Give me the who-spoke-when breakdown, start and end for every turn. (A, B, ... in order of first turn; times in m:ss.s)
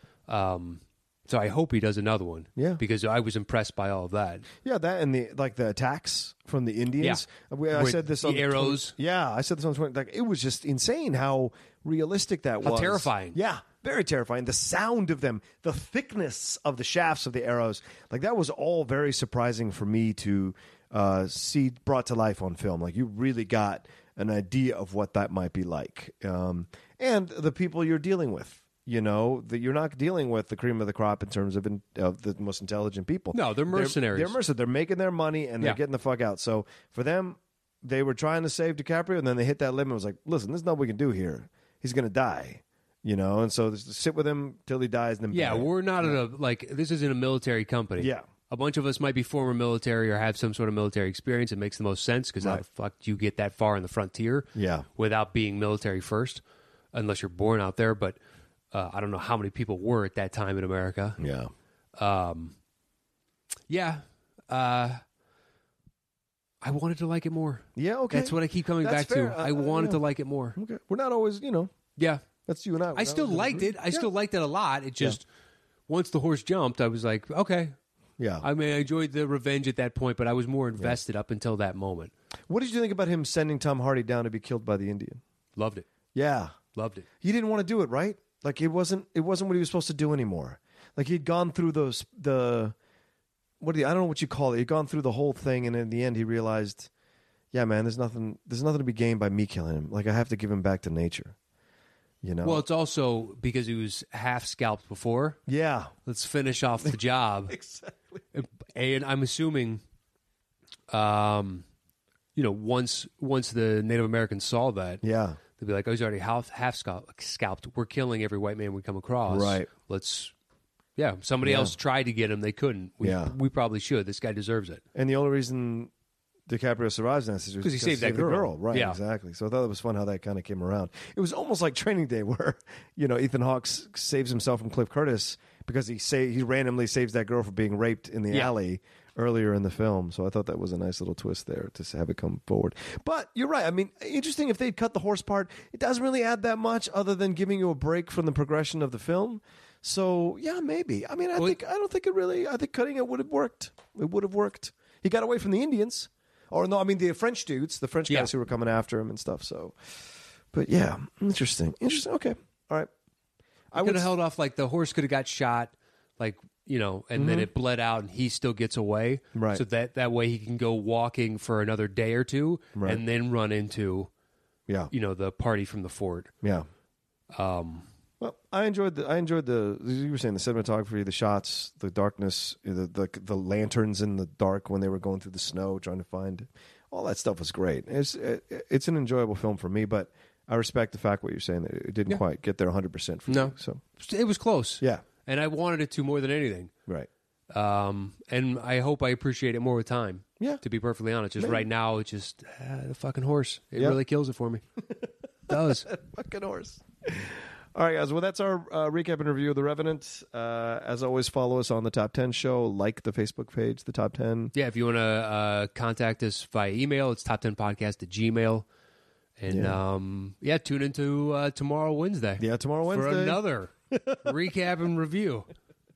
0:00.3-0:04.5 A
0:02.6-0:02.8 B
0:04.6-0:46.2 B
0:07.0-0:08.9 A
0:12.6-0:13.4 A
0:33.3-0:34.4 A
0:45.3-0:56.4 A
0:48.0-0:48.3 B
0:54.6-0:54.9 B
0:56.9-0:58.2 A
0:58.7-1:01.2 A
1:01.2-1:01.5 B
1:02.0-1:02.6 A
1:03.7-1:05.0 A
1:06.6-1:10.6 A
1:07.8-1:10.0 B
1:10.6-1:11.7 B
1:12.0-1:12.2 A
1:12.5-1:14.1 B
1:13.0-1:15.2 A
1:15.9-1:17.8 A
1:18.2-1:18.4 B
1:18.4-1:22.1 A
1:22.5-1:25.2 B
1:25.6-1:25.9 A
1:26.1-1:26.6 B
1:26.7-1:27.1 A
1:27.2-1:32.8 B
1:33.6-1:36.9 B
1:37.5-1:41.4 B
1:42.2-1:42.6 B
1:42.4-1:45.4 A
1:45.5-1:45.9 B
1:46.1-1:47.6 A
1:47.5-1:48.2 B
1:48.3-1:49.8 A
1:50.9-1:51.7 A
1:52.4-1:55.0 A
1:55.0-1:55.4 B
1:55.6-2:00.3 A
1:59.3-1:59.7 B
2:01.0-2:04.8 A
2:01.4-2:01.7 B
2:03.0-2:03.4 B
2:05.0-2:05.9 B
2:06.5-2:39.8 B
2:07.6-2:09.0 A
2:40.5-2:42.9 B
2:43.7-2:44.1 B
2:43.8-2:54.1 A
2:47.2-2:47.5 B
2:49.4-2:49.6 B
2:52.8-2:53.0 B
2:54.9-2:56.3 A
2:56.4-2:56.7 B
2:57.3-2:57.9 A
2:58.2-3:13.8 B
3:13.3-3:16.7 A
3:17.5-3:24.6 A
3:21.4-3:21.7 B
3:25.5-3:25.9 A
3:25.5-3:34.5 B
3:34.6-3:38.6 A
3:39.4-3:43.7 A
3:39.5-3:39.8 B
3:42.4-3:44.2 B
3:44.2-3:45.5 A